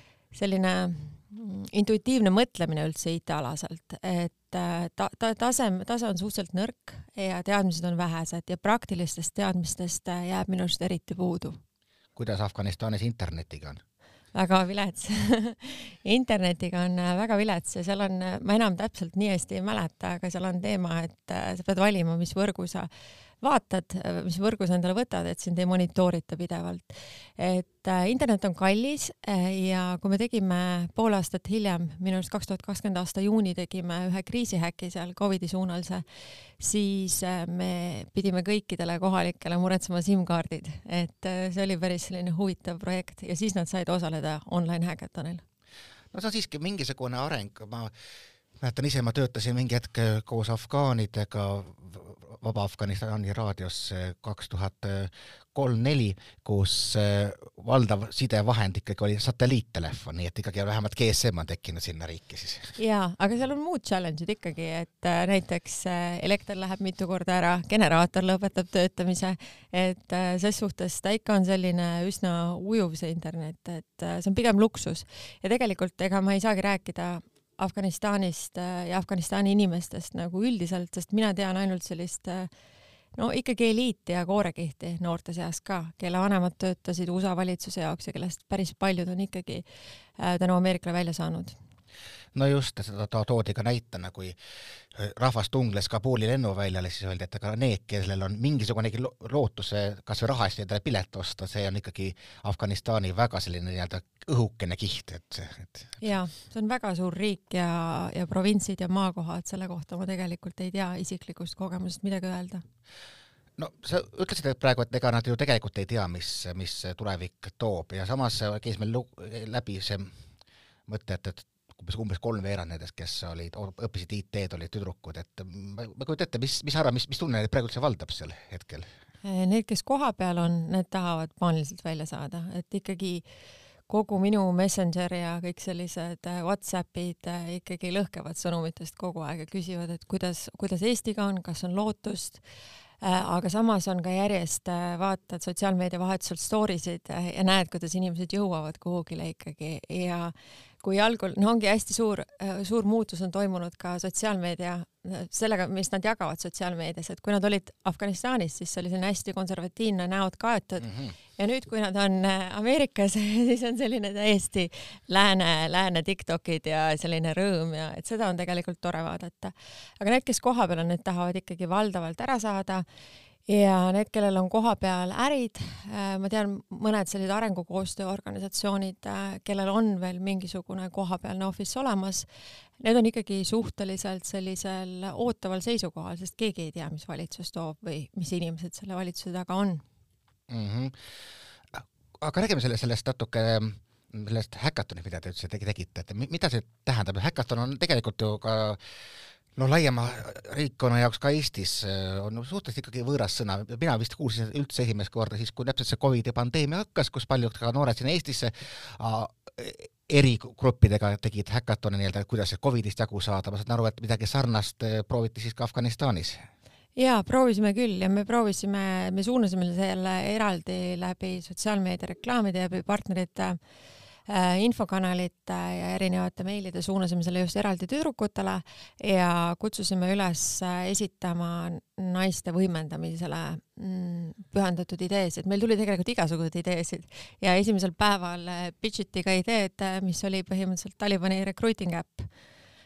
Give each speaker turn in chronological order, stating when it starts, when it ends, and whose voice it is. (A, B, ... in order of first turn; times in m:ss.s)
0:00.3-0:11.6 A
0:12.2-0:13.8 B
0:14.3-0:22.9 A
0:23.4-0:36.0 A
0:36.6-0:45.4 A
0:46.1-0:47.9 B
0:48.6-1:02.8 B
1:02.8-1:22.5 A
1:23.2-1:29.6 A
1:30.2-1:31.6 A
1:32.3-1:34.4 B
1:35.0-1:46.0 B
1:46.0-1:52.6 A
1:53.6-2:00.1 B
2:00.9-2:08.9 B
2:09.2-2:13.3 A
2:13.9-2:22.4 A
2:23.0-2:52.8 A
2:40.8-2:41.1 B
2:53.5-3:02.3 A
3:02.8-3:09.8 A
3:10.5-3:10.9 B
3:11.7-3:18.8 B
3:19.6-3:36.4 B
3:37.0-3:43.6 A
3:44.3-4:02.3 A